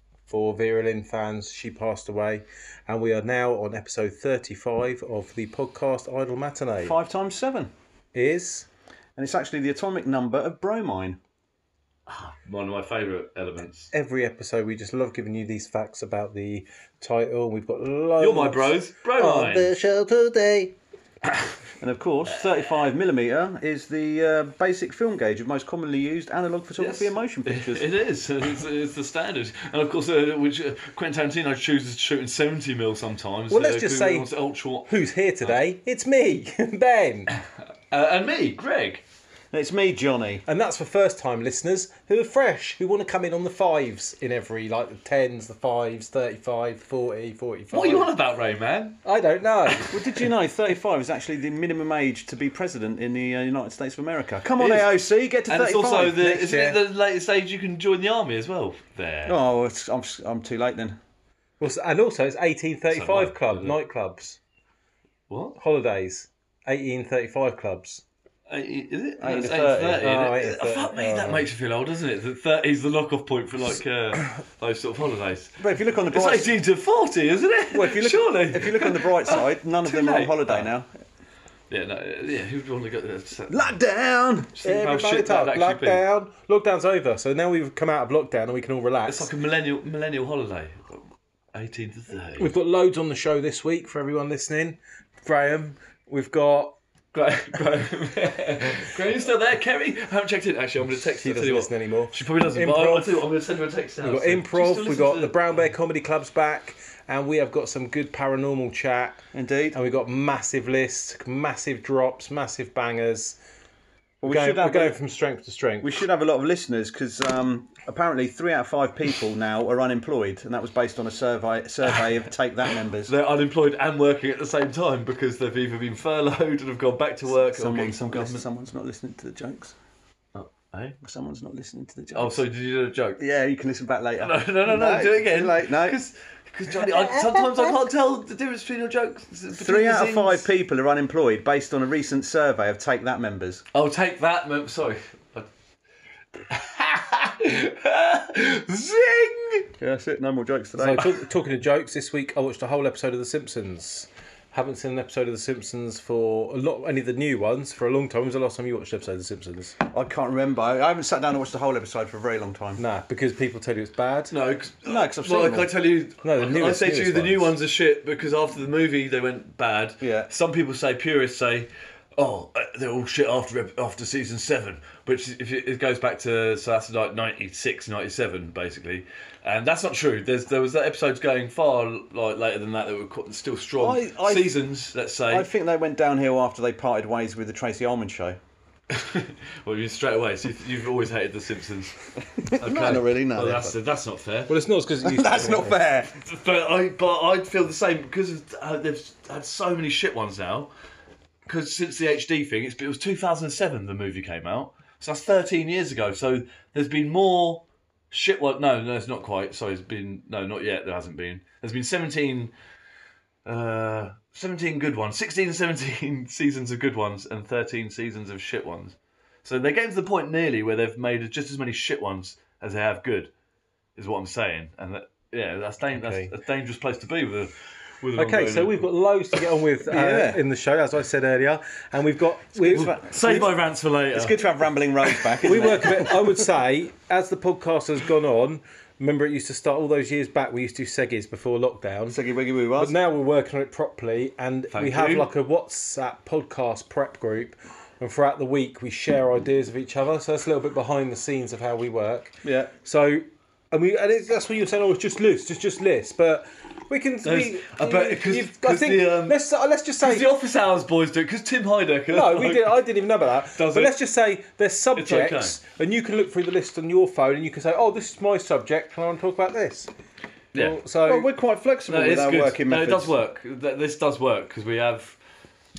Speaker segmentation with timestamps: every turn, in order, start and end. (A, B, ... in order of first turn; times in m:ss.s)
0:00.3-0:06.9 A
0:06.8-0:07.7 B
0:08.1-0:08.7 A
0:09.2-0:11.2 B
0:12.1-0:13.9 C
0:13.9-0:20.7 A
0:18.2-0:19.7 C
0:21.8-0:27.8 B
0:26.8-0:35.6 C
0:33.5-0:34.3 A
0:34.9-0:37.3 A
0:37.9-0:39.0 C
0:39.5-0:40.4 B
0:40.4-0:48.1 A
0:47.7-0:49.0 C
0:49.0-0:50.1 A
0:49.9-0:56.3 B
0:54.6-0:54.9 C
0:55.4-0:59.4 C
0:56.2-0:56.8 A
0:59.2-1:01.0 B
1:01.6-1:04.4 A
1:02.9-1:03.8 C
1:05.3-1:05.6 C
1:05.6-1:08.0 A
1:08.5-1:15.6 C
1:09.2-1:10.1 B
1:10.0-1:11.5 A
1:15.6-1:16.5 B
1:16.1-1:20.7 C
1:17.7-1:20.9 B
1:21.7-1:23.7 C
1:23.5-1:24.6 B
1:24.6-1:26.0 C
1:24.6-1:29.3 A
1:29.1-1:31.0 C
1:31.5-1:32.5 C
1:32.4-1:36.8 A
1:37.1-1:45.4 C
1:41.1-1:43.2 A
1:44.0-1:49.2 A
1:49.3-1:49.8 B
1:49.7-1:53.4 A
1:54.2-1:55.0 B
1:54.2-1:55.9 A
1:55.8-2:03.1 B
2:03.1-2:08.4 C
2:07.3-2:09.7 B
2:10.3-2:11.0 C
2:11.0-2:12.4 B
2:12.1-2:13.2 C
2:13.2-2:16.0 B
2:14.2-2:20.4 C
2:16.9-2:17.7 A
2:19.5-2:23.6 B
2:23.7-2:25.5 C
2:26.5-2:29.7 C
2:29.8-2:31.1 B
2:30.8-2:39.7 A
2:39.9-2:42.8 B
2:42.8-2:44.3 A
2:44.3-3:05.5 C
2:44.8-2:45.7 B
2:46.2-2:47.5 A
2:50.0-2:50.3 B
3:03.8-3:04.7 B
3:05.3-3:08.4 B
3:08.9-3:11.9 C
3:12.4-3:13.8 B
3:12.6-3:14.5 C
3:14.5-3:15.8 A
3:15.0-3:16.1 B
3:16.2-3:20.7 C
3:21.4-3:32.5 C
3:33.4-3:43.3 C
3:44.0-3:49.4 C
3:45.9-3:46.3 A
3:48.1-3:52.9 A
3:49.8-3:50.4 B
3:52.6-3:53.6 B
3:52.7-3:54.4 C
3:54.1-3:56.1 B
3:55.0-3:55.9 C
3:55.4-4:02.2 A
4:02.1-4:02.9 B
4:02.8-4:20.2 A
4:04.7-4:05.3 C
4:12.4-4:12.7 B
4:17.2-4:19.4 C
4:20.0-4:22.8 C
4:22.1-4:29.9 A
4:23.5-4:23.9 C
4:25.0-4:25.6 C
4:30.5-4:30.8 C
4:30.5-4:31.3 A
4:31.0-4:33.1 B
4:31.9-4:35.2 C